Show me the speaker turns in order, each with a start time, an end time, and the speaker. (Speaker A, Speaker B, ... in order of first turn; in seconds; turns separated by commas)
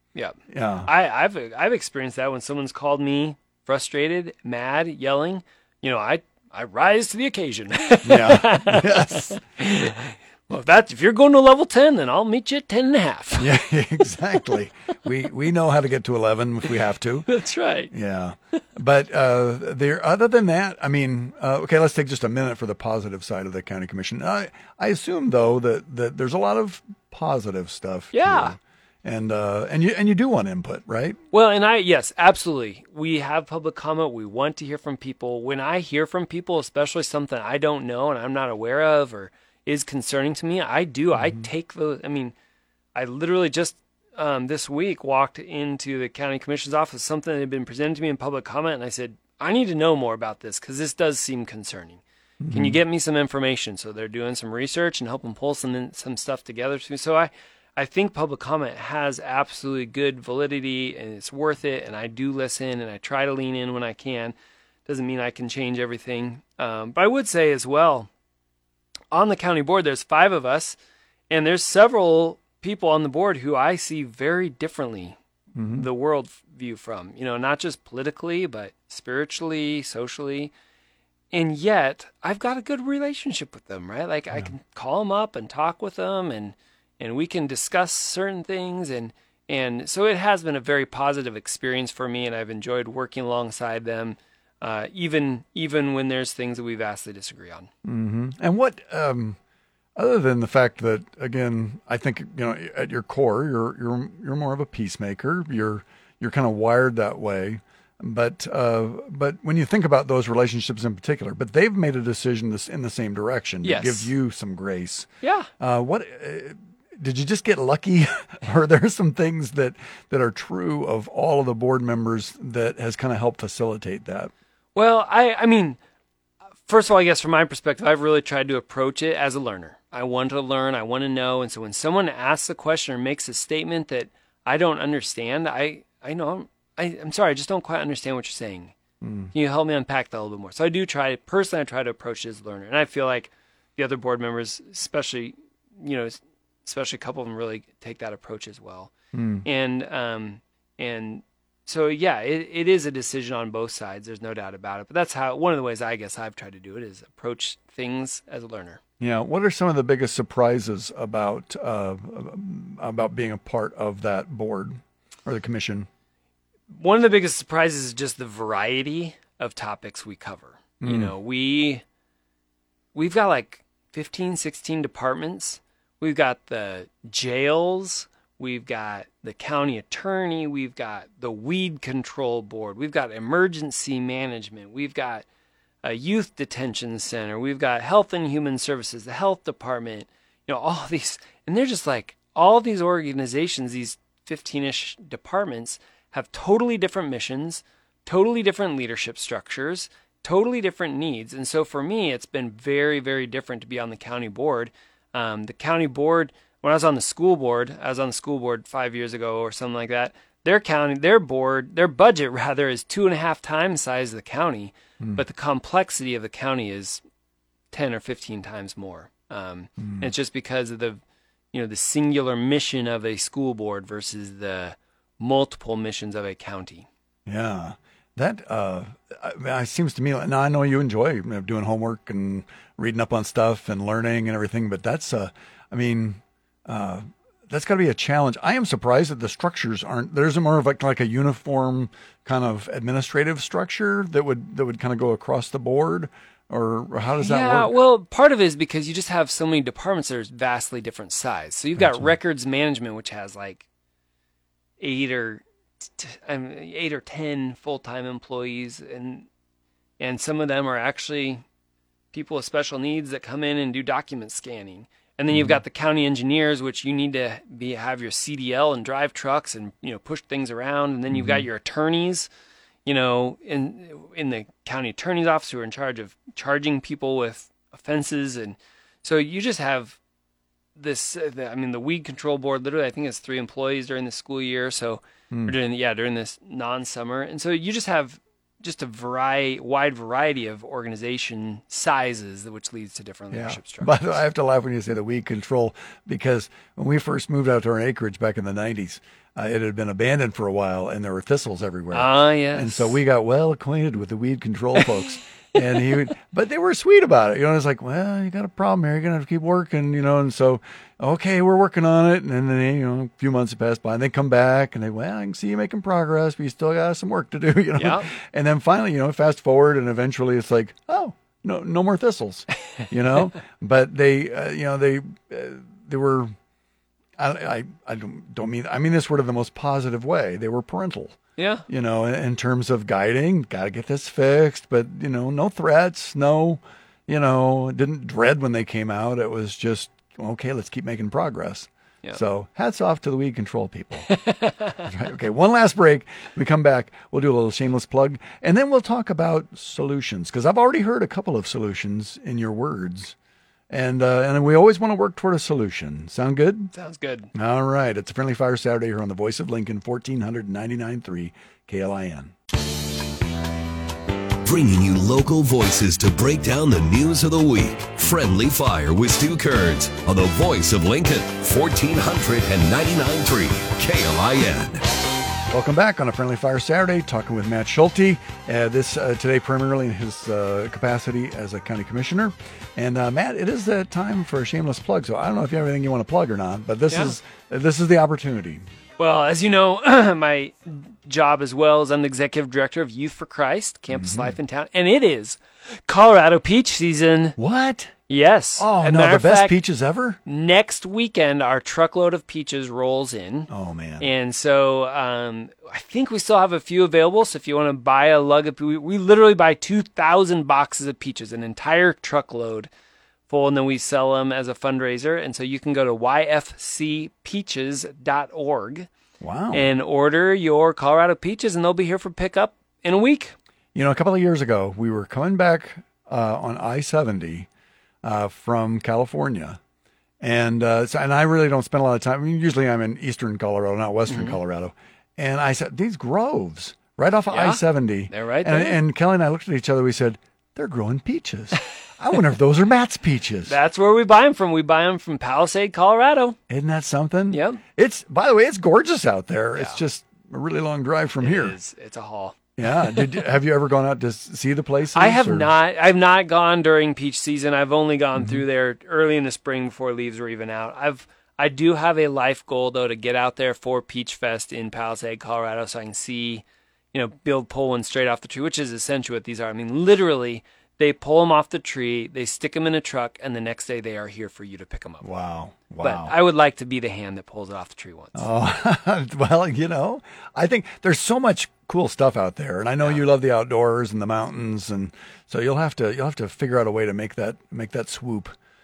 Speaker A: 0.1-13.5, Speaker B: 0.5-0.9, Speaker B: 8.0-9.9, Speaker B: 13.4-17.3, Speaker A: 17.3-17.9, Speaker B: 17.9-31.2, Speaker A: 28.1-28.6, Speaker A: 31.3-42.4, Speaker B: 41.1-41.5, Speaker A: 43.0-64.3, Speaker B: 52.4-52.8, Speaker A: 64.9-68.1, Speaker A: 69.1-70.8, Speaker A: 71.3-75.2, Speaker B: 75.5-75.9, Speaker A: 75.7-80.5, Speaker A: 81.3-97.7, Speaker B: 97.8-99.4, Speaker B: 100.0-115.1, Speaker A: 113.6-114.1, Speaker A: 115.2-115.5, Speaker B: 115.6-124.3, Speaker A: 124.8-125.8, Speaker A: 126.7-138.8, Speaker B: 139.0-139.3, Speaker A: 139.3-148.9, Speaker B: 149.1-149.5, Speaker A: 149.4-158.8, Speaker B: 159.0-165.9, Speaker A: 166.7-171.8, Speaker B: 170.8-171.1, Speaker A: 172.9-185.2, Speaker A: 185.8-217.0, Speaker A: 217.7-221.0, Speaker B: 219.8-220.1, Speaker A: 221.5-226.9, Speaker B: 227.3-247.7, Speaker A: 247.2-253.7, Speaker B: 251.8-252.1, Speaker A: 254.8-259.3, Speaker A: 260.0-261.4, Speaker A: 262.1-272.3, Speaker B: 265.3-265.6, Speaker B: 271.1-271.5, Speaker A: 272.9-280.0, Speaker A: 280.8-294.2, Speaker B: 285.3-285.6, Speaker B: 293.3-326.3, Speaker A: 301.9-303.0, Speaker A: 317.8-318.1, Speaker B: 327.2-331.2, Speaker A: 331.4-331.6, Speaker B: 331.7-344.1, Speaker A: 344.1-344.8, Speaker B: 344.8-353.1, Speaker B: 353.7-356.7, Speaker A: 356.7-357.3, Speaker B: 357.3-362.3, Speaker C: 364.4-374.9, Speaker B: 375.5-388.6, Speaker A: 389.0-397.4, Speaker B: 393.9-394.4, Speaker B: 397.4-397.9, Speaker A: 398.1-399.6, Speaker B: 398.6-400.2, Speaker A: 400.3-403.5, Speaker B: 403.5-404.1, Speaker A: 404.0-412.7, Speaker A: 413.3-418.9, Speaker B: 419.2-419.7, Speaker A: 419.5-423.4, Speaker B: 423.8-427.5, Speaker B: 428.0-429.6, Speaker B: 430.2-443.6, Speaker A: 434.1-434.4, Speaker A: 437.3-438.8, Speaker A: 443.5-446.4, Speaker B: 446.5-451.6, Speaker A: 447.3-447.6, Speaker A: 451.2-453.1, Speaker B: 452.6-455.5, Speaker A: 454.9-475.1, Speaker B: 475.0-476.1, Speaker A: 475.8-478.3, Speaker B: 478.1-488.4